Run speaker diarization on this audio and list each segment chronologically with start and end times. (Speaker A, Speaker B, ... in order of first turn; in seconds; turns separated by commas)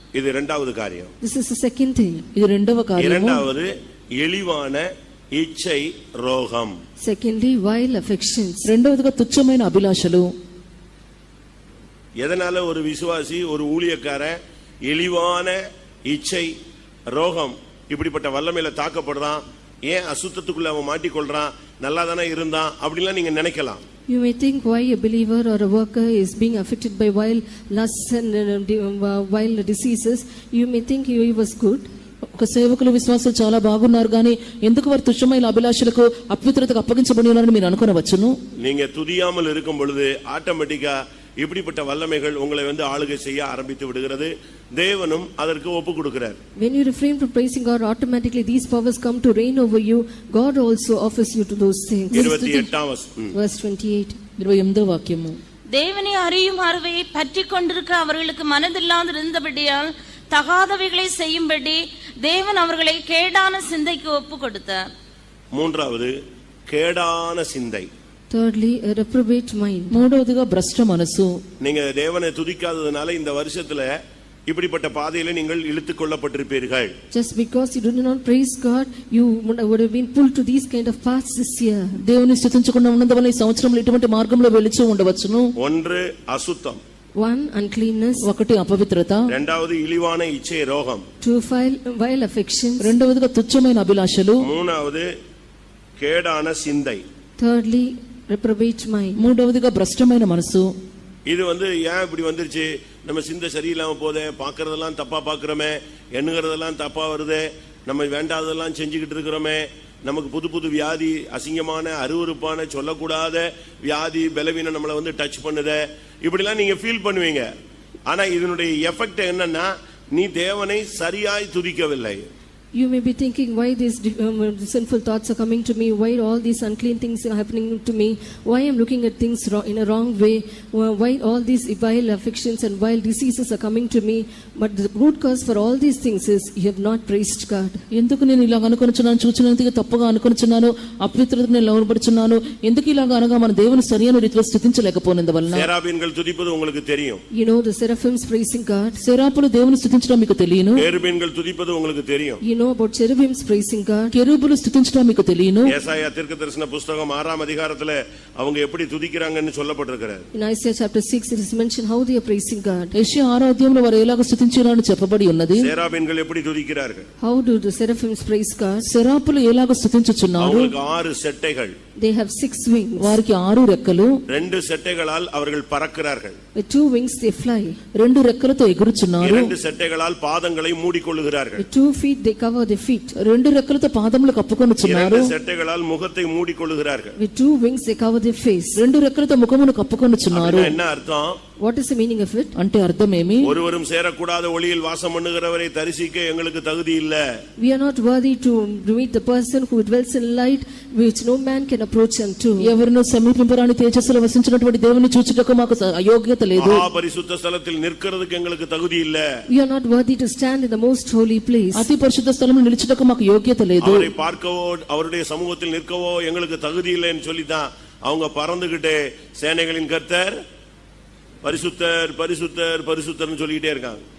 Speaker A: 0.1-1.1, Speaker B: 1.2-2.3, Speaker C: 2.4-3.5, Speaker A: 3.0-6.8, Speaker B: 7.0-8.7, Speaker C: 8.7-10.3, Speaker A: 12.2-16.5, Speaker A: 17.1-23.8, Speaker B: 24.1-31.9, Speaker C: 32.4-38.4, Speaker A: 38.6-46.4, Speaker B: 46.6-52.3, Speaker C: 52.1-52.7, Speaker A: 52.1-53.3, Speaker B: 53.3-54.2, Speaker C: 54.4-55.4, Speaker D: 55.7-64.9, Speaker A: 65.5-66.2, Speaker A: 66.7-67.9, Speaker B: 68.3-70.0, Speaker C: 69.9-71.4, Speaker A: 71.6-73.9, Speaker A: 74.5-76.9, Speaker B: 77.1-82.0, Speaker C: 82.0-85.5, Speaker A: 85.6-86.8, Speaker B: 87.2-88.3, Speaker C: 88.2-89.3, Speaker A: 89.3-91.0, Speaker B: 91.2-92.9, Speaker C: 92.8-94.5, Speaker A: 94.4-95.1, Speaker A: 96.0-97.0, Speaker B: 97.4-99.2, Speaker C: 99.2-100.7, Speaker A: 101.3-117.5, Speaker A: 118.1-122.2, Speaker B: 122.7-137.8, Speaker C: 137.9-145.7, Speaker A: 145.5-147.2, Speaker B: 147.3-149.0, Speaker C: 149.0-150.8, Speaker A: 150.8-152.4, Speaker B: 152.4-154.1, Speaker C: 154.1-155.7, Speaker A: 155.7-160.3, Speaker B: 160.3-162.9, Speaker C: 162.9-165.7, Speaker A: 165.6-167.1, Speaker B: 167.2-168.9, Speaker C: 168.8-170.7, Speaker A: 170.4-171.7, Speaker B: 172.0-173.2, Speaker C: 173.0-174.2, Speaker A: 174.3-176.4, Speaker B: 176.6-177.8, Speaker C: 178.0-179.5, Speaker A: 179.2-181.7, Speaker B: 181.6-183.1, Speaker C: 183.2-185.3, Speaker A: 184.8-187.2, Speaker B: 187.2-188.8, Speaker C: 188.8-190.8, Speaker A: 190.3-191.4, Speaker B: 191.6-192.5, Speaker C: 192.6-193.5, Speaker A: 193.4-197.2, Speaker B: 197.6-202.7, Speaker C: 202.6-206.8, Speaker A: 206.6-209.3, Speaker B: 209.5-211.9, Speaker C: 211.7-214.1, Speaker A: 213.8-220.4, Speaker A: 221.4-224.0